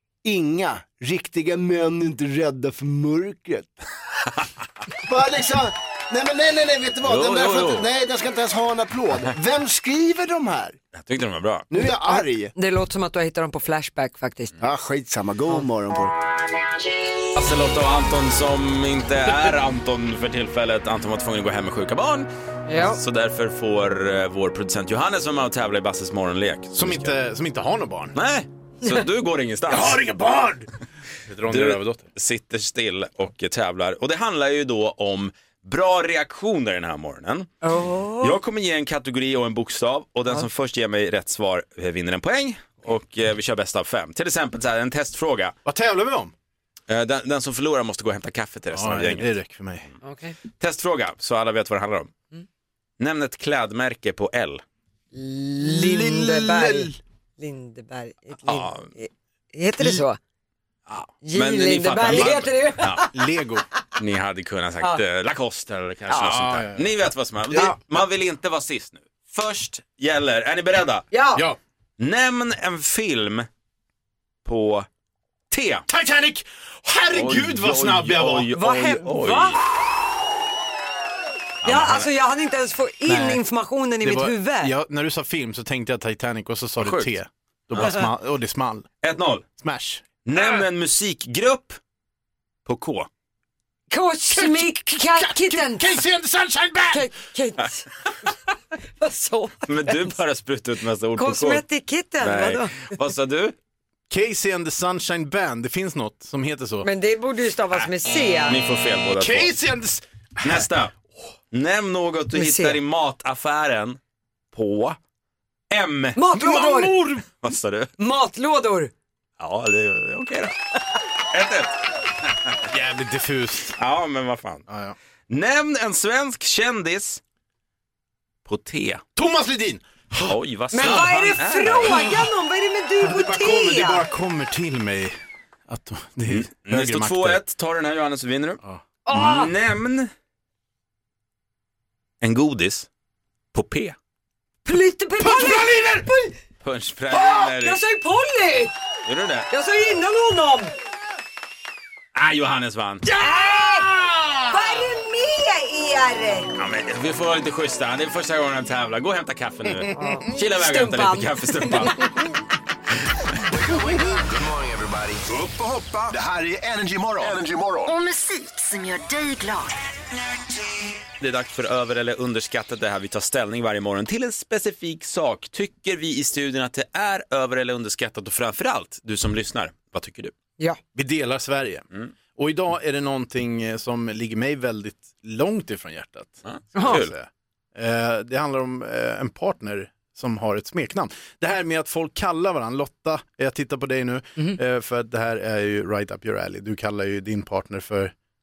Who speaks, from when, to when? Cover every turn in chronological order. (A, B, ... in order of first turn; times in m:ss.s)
0:00.2-0:03.7 A
0:05.0-0:10.8 A
0:07.0-0:07.9 B
0:10.9-0:11.7 B
0:11.7-0:12.5 A
0:11.8-0:14.5 C
0:14.6-0:16.2 A
0:17.3-0:27.1 B
0:22.7-0:23.0 C
0:26.8-0:28.2 D
0:28.2-0:30.0 B
0:29.7-0:30.7 D
0:31.3-0:32.0 D
0:31.5-0:37.5 B
0:37.6-0:38.4 C
0:38.2-0:45.5 B
0:45.6-0:46.3 D
0:46.9-0:49.3 B
0:48.7-0:49.9 D
0:50.0-0:50.4 C
0:50.6-0:52.1 B
0:53.0-0:54.6 B
0:55.1-1:00.2 C
0:55.6-0:57.0 D
0:58.4-0:58.9 B
1:00.9-1:03.0 B
1:01.2-1:03.1 C
1:02.1-1:02.4 D
1:03.1-1:03.6 D
1:04.0-1:11.1 B
1:06.1-1:07.8 D
1:11.1-1:11.4 C
1:12.0-1:13.5 B
1:14.4-1:14.8 B
1:15.5-1:15.8 B
1:15.9-1:18.5 D
1:17.1-1:19.6 B
1:18.6-1:19.6 C
1:21.6-1:22.1 B
1:21.6-1:24.7 C
1:23.0-1:23.4 D
1:24.0-1:28.8 D
1:26.8-1:27.1 B
1:27.7-1:28.0 B
1:27.8-1:28.0 C
1:29.0-1:29.5 B
1:29.6-1:30.7 D
1:30.2-1:31.8 B
1:32.6-1:33.1 B
1:33.9-1:36.0 C
1:34.3-1:37.1 D
1:36.9-1:37.9 C
1:39.0-1:40.2 C
1:39.7-1:41.6 B
1:41.2-1:42.9 C
1:42.2-1:43.6 B
1:44.1-1:46.9 D
1:46.8-1:48.6 C
1:48.5-1:49.5 B
1:49.2-1:50.7 D
1:50.4-1:50.9 B
1:51.5-1:54.0 B
1:52.3-1:52.8 C
1:54.5-1:55.0 B
1:55.7-1:57.9 B
1:56.2-1:56.9 C
1:58.0-1:58.9 C
1:59.4-2:00.6 B
2:01.3-2:02.5 B
2:02.6-2:03.8 D
2:03.8-2:04.6 B
2:04.7-2:05.0 D
2:05.3-2:07.2 B
2:08.4-2:09.0 B
2:09.2-2:12.3 D
2:10.2-2:12.1 B
2:10.7-2:14.1 C
2:13.0-2:15.2 D
2:15.7-2:17.4 D
2:16.3-2:18.6 B
2:19.1-2:19.5 C
2:19.1-2:20.1 B
2:22.2-2:22.9 B
2:23.5-2:24.0 B
2:24.6-2:26.3 C
2:25.2-2:26.1 D
2:26.6-2:27.8 B
2:27.1-2:28.7 C
2:29.0-2:29.5 B
2:29.5-2:30.7 C
2:32.1-2:33.1 B
2:33.1-2:34.4 D
2:33.2-2:33.9 C
2:34.5-2:36.5 C
2:36.6-2:42.1 B
2:39.9-2:42.0 C
2:43.5-2:47.9 E
2:47.9-2:49.8 F
2:51.2-3:00.3 B
3:00.9-3:18.1 D
3:06.4-3:07.1 B
3:06.8-3:07.0 C